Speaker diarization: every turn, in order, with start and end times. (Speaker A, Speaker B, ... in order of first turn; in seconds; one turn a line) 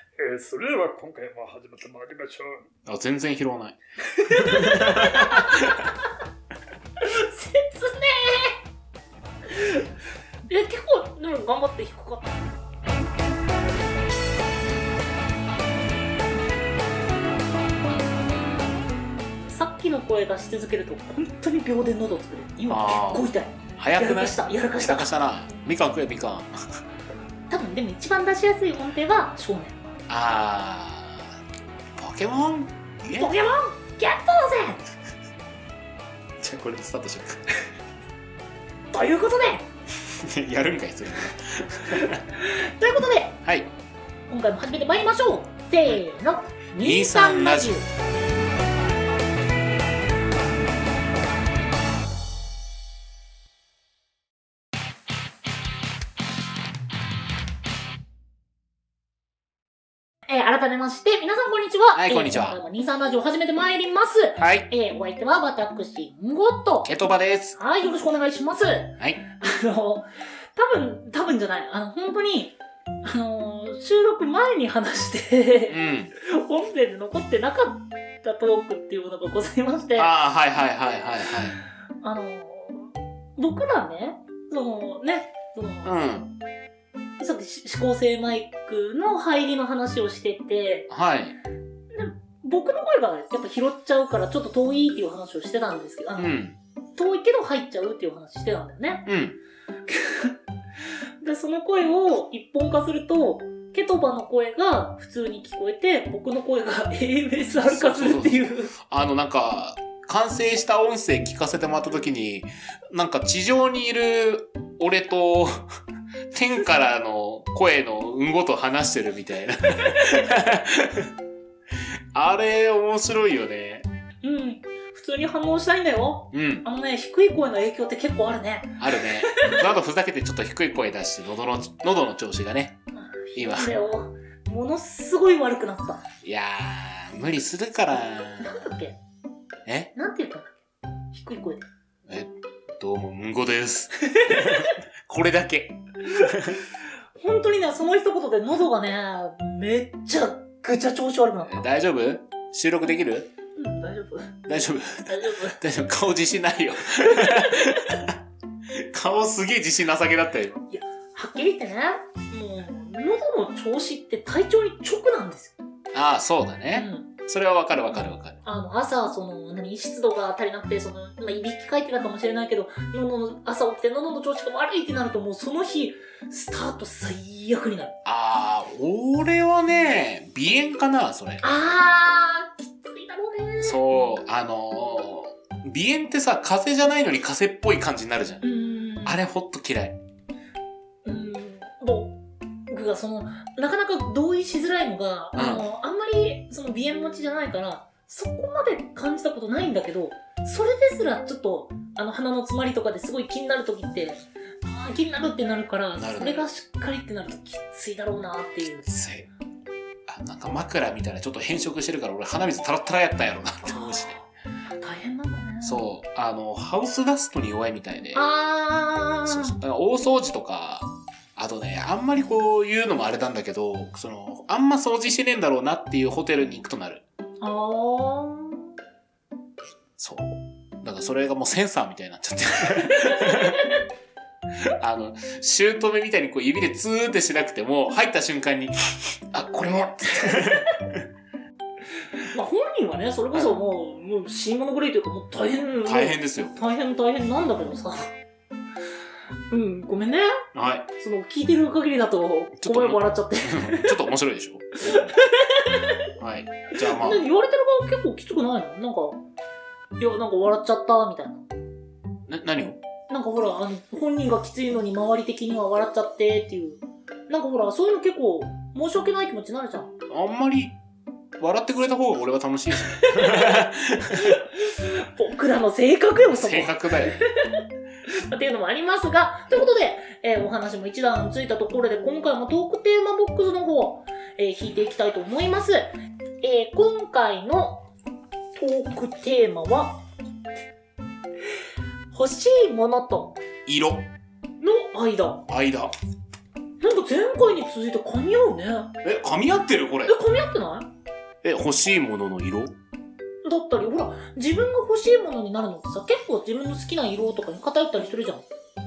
Speaker A: 0.2-2.7
Speaker B: 2.9-5.8
Speaker C: 4.1-5.9
Speaker C: 7.0-8.6
Speaker C: 9.5-9.8
Speaker C: 10.5-12.4
Speaker C: 19.5-25.1
Speaker B: 22.7-26.8
Speaker C: 27.5-29.8
Speaker B: 30.1-31.4
Speaker B: 32.0-33.3
Speaker C: 33.1-34.8
Speaker B: 36.4-37.4
Speaker C: 38.9-39.7
Speaker B: 40.0-42.2
Speaker C: 42.1-43.4
Speaker C: 44.3-47.9
Speaker B: 46.7-47.8
Speaker C: 60.3-66.9
Speaker B: 61.9-62.6
Speaker B: 64.4-64.7
Speaker B: 66.8-67.6
Speaker C: 67.5-80.1
Speaker B: 75.7-76.1
Speaker B: 80.0-81.6
Speaker C: 82.0-86.0
Speaker B: 85.8-86.3
Speaker C: 87.2-90.9
Speaker B: 90.9-91.4
Speaker C: 91.9-96.4
Speaker B: 96.2-96.6
Speaker C: 97.0-99.1
Speaker B: 99.1-99.4
Speaker C: 99.9-100.3
Speaker C: 101.2-108.7
Speaker B: 107.5-115.6
Speaker B: 116.3-121.1
Speaker B: 122.1-123.9
Speaker C: 124.2-129.7
Speaker B: 126.3-126.7
Speaker B: 128.8-132.8
Speaker C: 132.9-136.1
Speaker B: 133.3-133.7
Speaker B: 136.2-138.6
Speaker C: 138.4-139.0
Speaker B: 139.7-139.9
Speaker C: 139.9-140.6
Speaker C: 141.1-141.7
Speaker B: 142.1-146.6
Speaker C: 144.1-144.8
Speaker C: 146.2-146.5
Speaker C: 147.2-151.7
Speaker B: 151.5-153.3
Speaker C: 153.6-154.3
Speaker B: 154.5-158.1
Speaker C: 155.1-155.6
Speaker C: 157.2-157.7
Speaker B: 158.7-160.6
Speaker C: 160.7-165.6
Speaker B: 165.9-168.4
Speaker C: 166.7-167.1
Speaker C: 167.9-178.0
Speaker B: 178.1-181.5
Speaker C: 181.4-183.8
Speaker B: 183.6-188.4
Speaker C: 188.4-189.2
Speaker B: 189.0-190.0
Speaker C: 191.1-192.2
Speaker C: 192.7-208.9
Speaker B: 195.3-195.7
Speaker B: 206.0-206.5
Speaker B: 208.8-209.3
Speaker B: 210.1-214.2
Speaker C: 213.6-215.9
Speaker B: 215.6-218.2
Speaker C: 218.1-219.6
Speaker B: 219.3-227.0
Speaker C: 227.4-228.7
Speaker B: 230.0-233.7
Speaker C: 232.8-233.8
Speaker B: 234.8-241.0
Speaker C: 240.2-240.6
Speaker C: 242.1-248.1
Speaker B: 243.3-243.6
Speaker B: 245.8-246.6
Speaker C: 249.5-250.3
Speaker B: 250.6-250.9
Speaker C: 251.0-254.0
Speaker B: 252.6-255.1
Speaker C: 254.8-256.0
Speaker B: 256.2-257.3
Speaker C: 256.8-259.2
Speaker C: 260.0-261.5
Speaker B: 262.3-262.8
Speaker C: 263.1-269.9
Speaker B: 270.1-270.8
Speaker B: 271.4-274.3
Speaker C: 272.7-287.9
Speaker B: 276.3-277.2
Speaker C: 288.6-290.0
Speaker C: 292.1-293.4
Speaker B: 293.7-294.1
Speaker C: 294.6-295.5
Speaker B: 295.5-295.9
Speaker C: 296.8-298.9
Speaker B: 299.0-300.2
Speaker C: 300.1-300.9
Speaker B: 301.4-302.7
Speaker C: 303.4-308.5